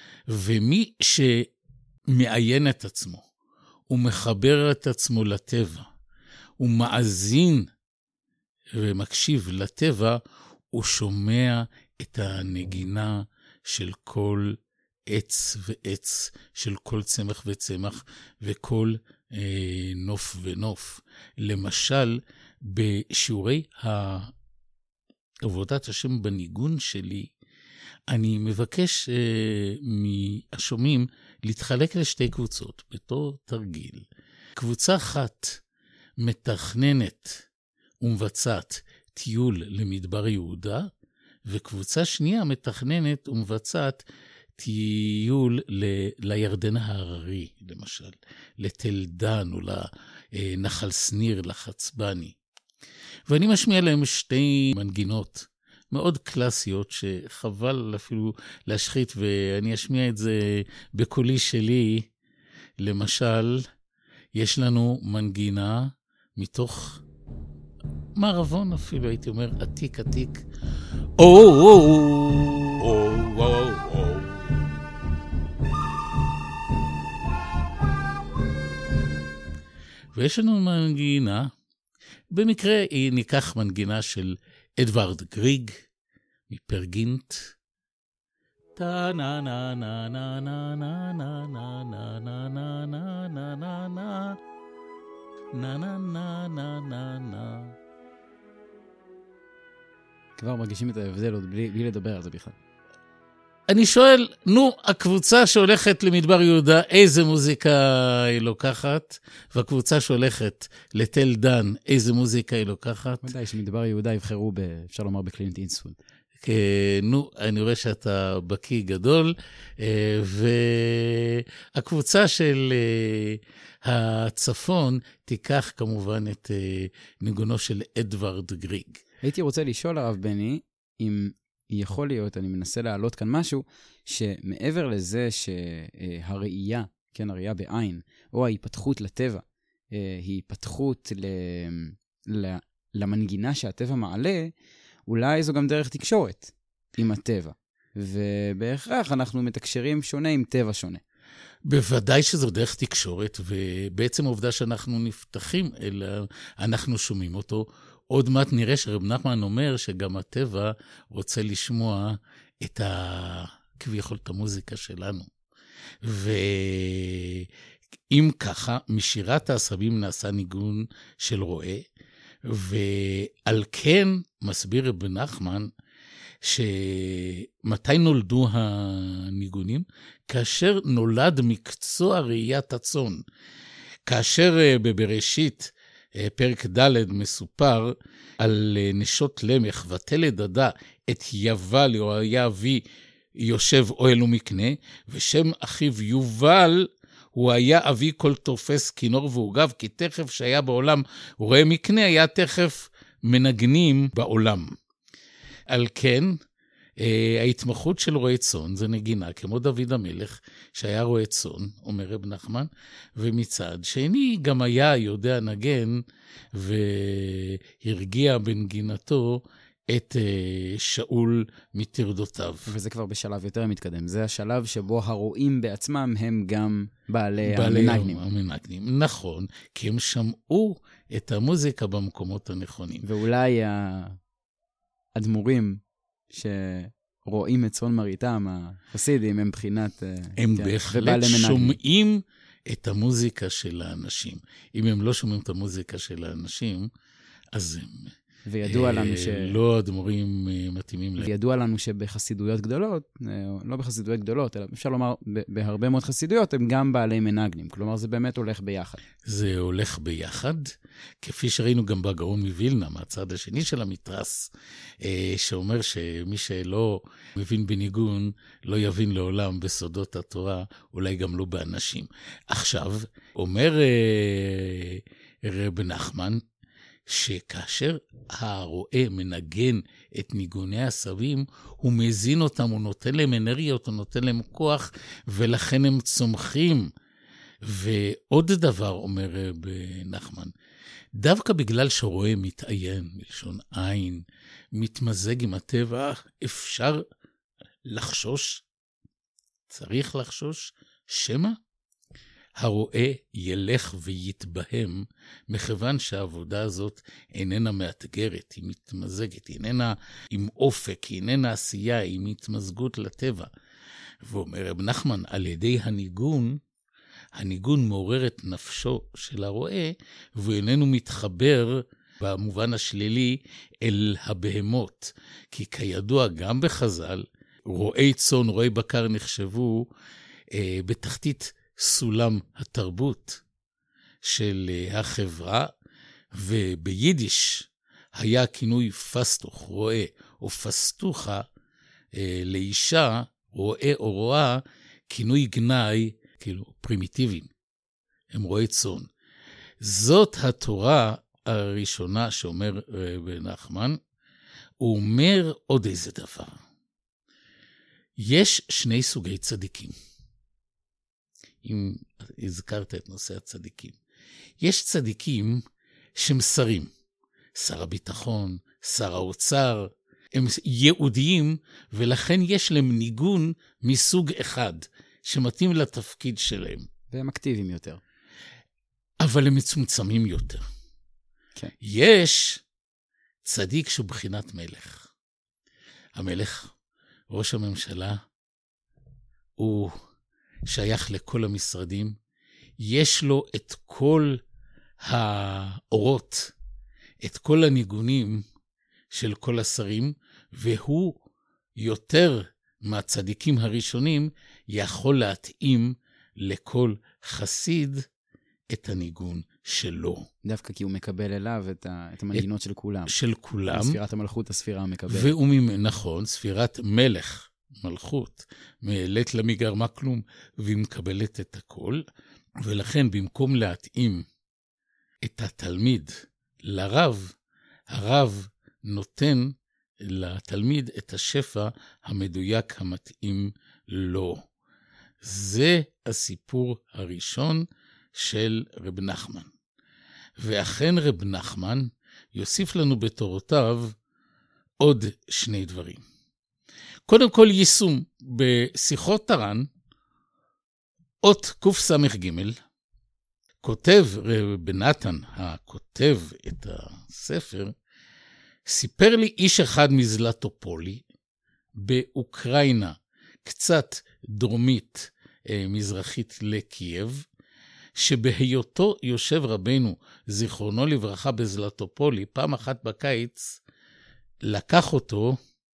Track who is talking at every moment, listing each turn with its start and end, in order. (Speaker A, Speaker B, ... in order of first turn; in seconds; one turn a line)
Speaker A: 0.3-1.5
Speaker A: 2.1-3.2
Speaker A: 3.9-5.9
Speaker A: 6.6-7.7
Speaker A: 8.8-10.2
Speaker A: 10.7-14.6
Speaker A: 15.1-24.3
Speaker A: 25.4-27.3
Speaker A: 28.1-34.0
Speaker A: 34.6-35.6
Speaker A: 36.2-37.5
Speaker A: 38.0-40.9
Speaker A: 41.5-44.0
Speaker A: 44.6-52.3
Speaker A: 53.3-62.1
Speaker A: 62.8-63.6
Speaker A: 64.3-67.0
Speaker A: 68.2-70.4
Speaker A: 71.2-74.6
Speaker A: 80.1-81.5
Speaker A: 82.3-85.8
Speaker A: 86.5-87.5
Speaker A: 88.8-94.4
Speaker A: 95.5-97.8
Speaker B: 100.4-102.6
Speaker A: 103.7-113.3
Speaker B: 113.2-116.0
Speaker A: 116.4-129.0
Speaker B: 129.2-144.5
Speaker B: 145.1-151.0
Speaker A: 151.7-165.3
Speaker A: 166.0-167.5
Speaker A: 168.1-171.9
Speaker A: 172.4-175.7
Speaker A: 176.4-183.2
Speaker A: 184.1-192.8
Speaker A: 193.4-204.8
Speaker A: 205.7-206.4
Speaker A: 207.0-216.0
Speaker A: 216.5-222.7
Speaker B: 222.7-228.2
Speaker A: 227.4-233.1
Speaker B: 233.0-234.2
Speaker B: 235.1-235.8
Speaker B: 236.3-241.8
Speaker A: 240.4-246.9
Speaker A: 247.5-248.1
Speaker B: 248.5-249.6
Speaker A: 248.6-251.3
Speaker B: 251.2-259.0
Speaker A: 259.2-276.4
Speaker A: 277.1-286.9
Speaker A: 287.6-290.5
Speaker A: 291.2-294.2
Speaker A: 294.8-297.0
Speaker A: 297.9-298.6
Speaker A: 299.7-301.6
Speaker A: 302.6-313.5
Speaker A: 314.2-316.6
Speaker A: 317.4-329.9
Speaker A: 330.5-333.4
Speaker A: 334.2-335.7
Speaker A: 336.3-341.4
Speaker A: 342.1-347.5
Speaker A: 348.3-349.1
Speaker A: 349.8-354.0
Speaker A: 354.8-356.6
Speaker A: 358.2-359.9
Speaker A: 361.6-364.0
Speaker A: 364.6-365.6
Speaker A: 366.2-366.9
Speaker A: 367.6-376.9
Speaker B: 377.1-378.0
Speaker A: 379.2-380.6
Speaker A: 381.8-382.6
Speaker A: 383.4-385.1
Speaker A: 386.1-386.7
Speaker A: 387.3-388.2
Speaker A: 389.6-389.9
Speaker A: 390.6-392.1
Speaker A: 392.8-394.4
Speaker A: 395.0-396.5
Speaker A: 397.2-398.4
Speaker A: 399.1-401.2
Speaker A: 401.8-408.1
Speaker A: 408.7-410.3
Speaker B: 410.4-413.1
Speaker A: 413.1-414.0
Speaker B: 413.7-415.3
Speaker A: 415.1-422.0
Speaker A: 422.6-424.2
Speaker A: 425.2-426.1
Speaker A: 426.6-427.3
Speaker A: 427.9-434.4
Speaker A: 435.2-439.5
Speaker A: 440.4-443.9
Speaker A: 444.8-446.0
Speaker A: 447.1-449.7
Speaker A: 451.2-452.6
Speaker A: 453.6-457.7
Speaker A: 458.7-461.0
Speaker A: 461.8-467.2
Speaker A: 467.9-473.6
Speaker A: 474.4-475.4